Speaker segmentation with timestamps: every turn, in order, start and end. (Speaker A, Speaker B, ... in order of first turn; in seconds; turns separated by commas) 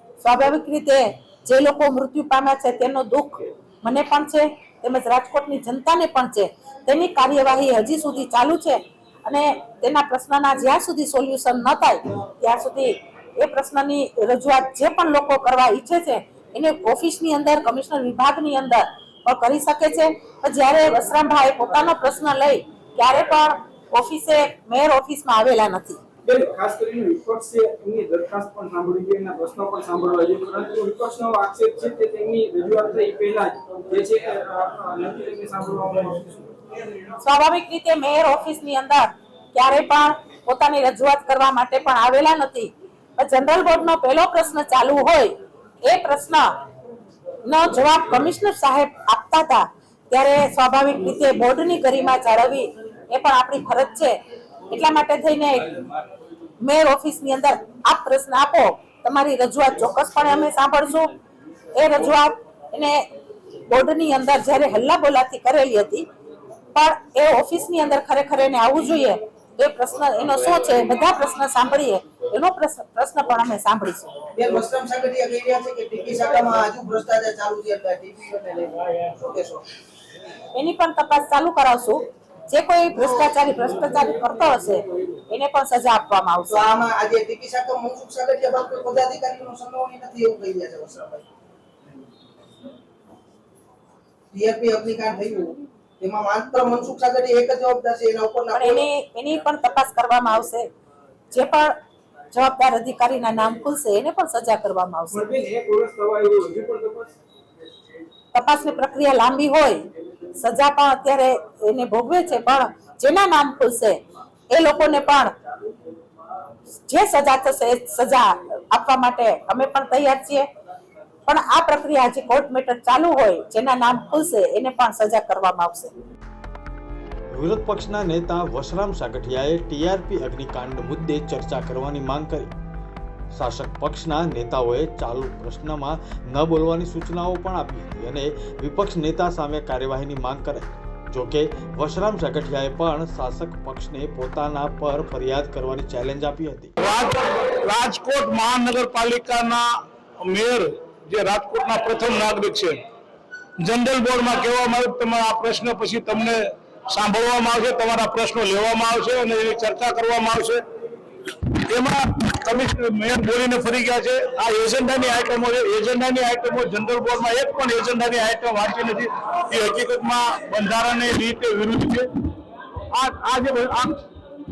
Speaker A: 0.2-26.0, Speaker B: 26.2-36.5, Speaker A: 37.2-46.5, Speaker A: 47.5-54.2, Speaker A: 54.7-55.9, Speaker A: 56.6-61.1, Speaker A: 61.7-63.1, Speaker A: 63.7-66.1, Speaker A: 66.7-74.2, Speaker C: 74.3-79.6, Speaker A: 80.5-86.7, Speaker C: 86.5-91.2, Speaker C: 94.3-98.8, Speaker A: 98.5-100.7, Speaker A: 101.3-101.7, Speaker A: 102.3-105.3, Speaker B: 105.1-107.1, Speaker A: 108.3-109.9, Speaker A: 110.4-114.0, Speaker A: 114.5-115.3, Speaker A: 116.9-120.5, Speaker A: 121.3-125.9, Speaker D: 127.3-132.5, Speaker D: 133.3-146.7, Speaker E: 146.8-149.7, Speaker E: 150.2-152.8, Speaker E: 153.6-160.6, Speaker E: 161.7-172.1, Speaker E: 172.9-174.0